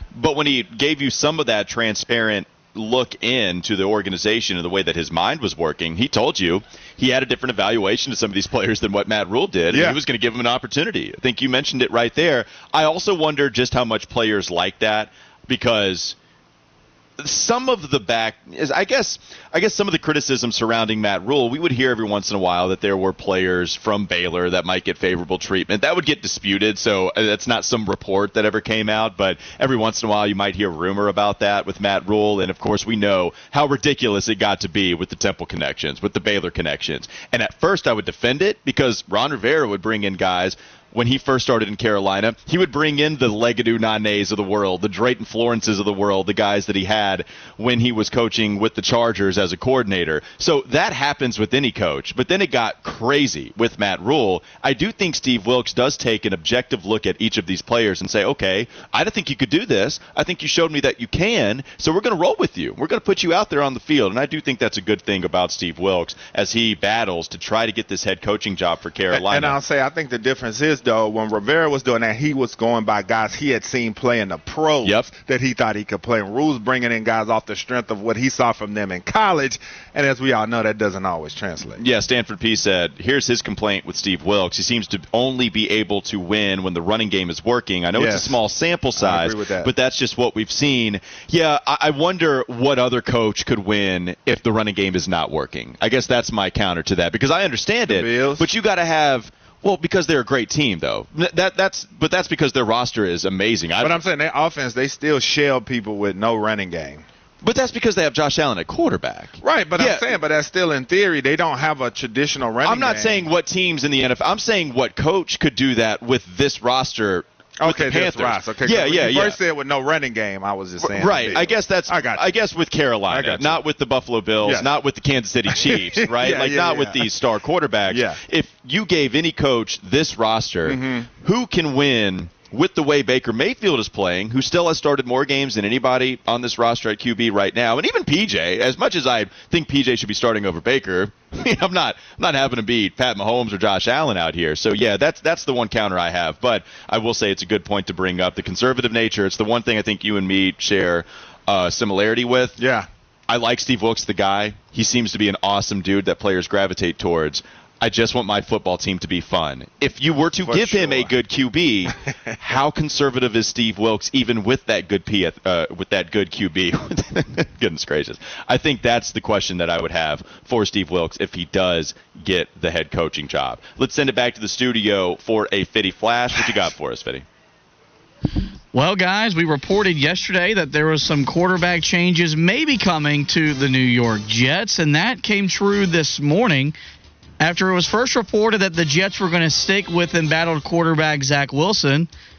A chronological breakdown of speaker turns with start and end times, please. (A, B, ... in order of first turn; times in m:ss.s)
0:00.2-0:16.2 A
0:09.7-0:10.0 B
0:17.2-1:09.6 A
1:09.1-1:21.8 B
1:21.8-1:44.0 A
1:28.0-1:28.4 B
1:29.0-1:29.7 B
1:37.9-1:38.5 B
1:43.8-1:47.0 B
1:47.4-1:50.1 A
1:49.4-1:53.3 B
1:52.6-1:59.4 A
1:57.6-2:02.3 B
2:00.8-2:32.6 A
2:03.1-2:03.6 B
2:04.4-2:04.7 B
2:05.5-2:07.1 B
2:07.9-2:08.2 B
2:10.6-2:11.1 B
2:32.6-2:32.9 B
2:33.3-2:57.2 A
2:40.4-2:41.1 B
2:58.7-3:06.8 C
3:07.4-3:12.1 C